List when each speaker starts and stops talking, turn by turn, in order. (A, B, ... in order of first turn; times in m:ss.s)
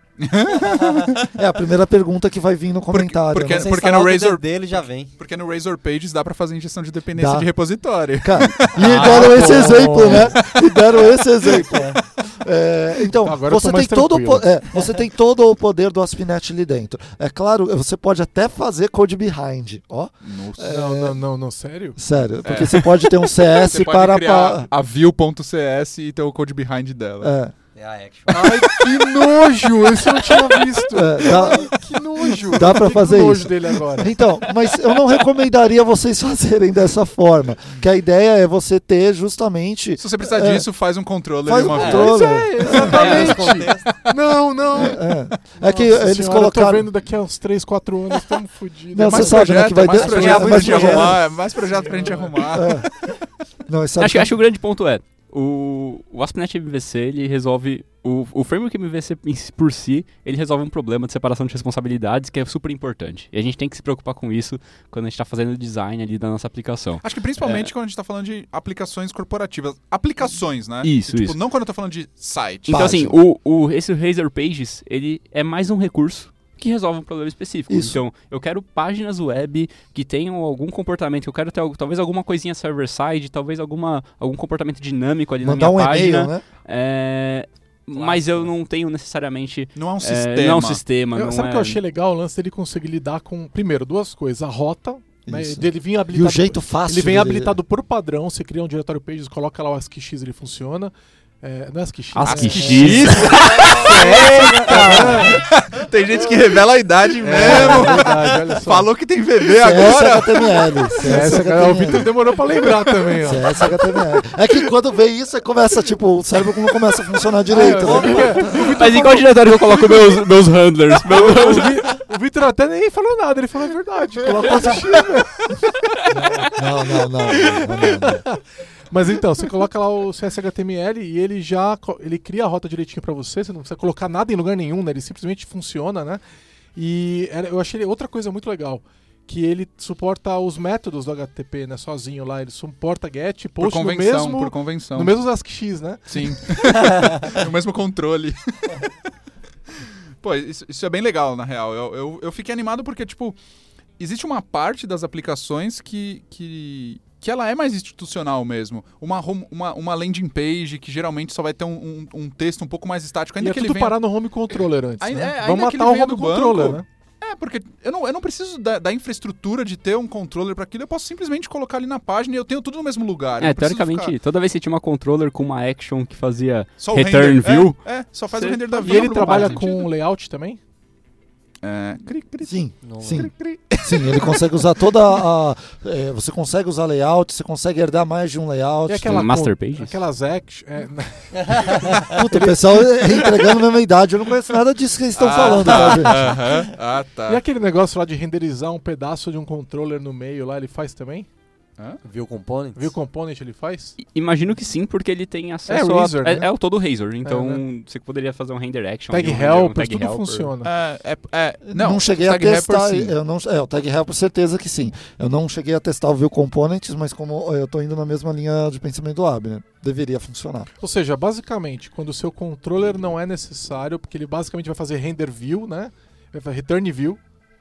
0:00.2-0:01.2 A
0:01.3-0:03.7 B
0:02.9-0:10.9 A
0:03.5-0:05.1 C
0:07.2-0:07.5 B
0:08.2-0:21.2 B
0:08.8-0:10.4 D
0:11.5-0:12.0 C
0:13.2-0:14.5 D
0:20.2-0:20.7 A
0:20.6-0:22.0 D
0:22.0-0:24.7 B
0:22.4-0:27.4 A
0:27.2-0:27.5 B
0:27.8-0:28.5 C
0:28.3-0:34.2 D
0:28.3-0:30.6 A
0:30.9-0:31.7 B
0:32.5-0:40.7 B
0:40.0-0:43.9 A
0:41.4-0:43.5 B
0:41.7-0:42.2 C
0:41.8-0:52.4 D
0:42.7-0:43.9 C
0:44.7-0:46.9 B
0:48.9-0:51.2 B
0:49.0-0:53.1 A
0:50.0-0:51.1 C
0:52.5-0:52.9 B
0:53.7-0:54.4 B
0:54.0-1:07.7 E
1:07.0-1:12.9 A
1:10.8-1:11.4 E
1:12.7-1:31.8 E
1:12.7-1:13.2 B
1:17.7-1:18.0 B
1:25.4-1:26.4 B
1:28.0-1:28.5 D
1:29.8-1:30.8 A
1:31.1-1:45.4 D
1:35.3-1:37.6 B
1:42.1-1:43.8 E
1:42.2-1:50.7 A
1:43.7-1:45.4 C
1:47.2-1:48.9 D
1:49.6-1:52.1 B
1:51.0-1:53.5 D
1:53.2-1:58.6 B
1:57.5-1:59.4 D
1:58.4-2:01.9 E
2:01.1-2:05.5 D
2:06.1-2:06.6 D
2:06.6-2:08.2 B
2:07.4-2:16.2 D
2:16.8-2:26.2 D
2:23.6-2:25.2 A
2:26.1-2:28.9 A
2:29.8-2:33.4 A
2:34.0-2:44.0 A
2:43.4-2:46.8 D
2:45.0-2:54.1 A
2:53.4-2:59.6 E
2:56.8-2:59.9 A
2:58.8-3:00.6 D
3:01.6-3:02.5 A
3:02.4-3:09.2 B
3:02.8-3:03.3 C
3:03.1-3:03.9 A
3:08.9-3:12.6 D
3:09.0-3:10.0 E
3:11.9-3:12.2 C
3:12.2-3:16.3 B
3:15.2-3:17.4 A
3:17.3-3:21.3 D
3:22.0-3:22.9 C
3:22.8-3:24.0 D
3:24.0-3:30.5 E
3:25.7-3:26.5 D
3:27.2-3:27.6 D
3:29.1-3:30.7 D
3:30.6-3:33.2 A
3:31.7-3:40.7 B
3:40.8-3:47.2 D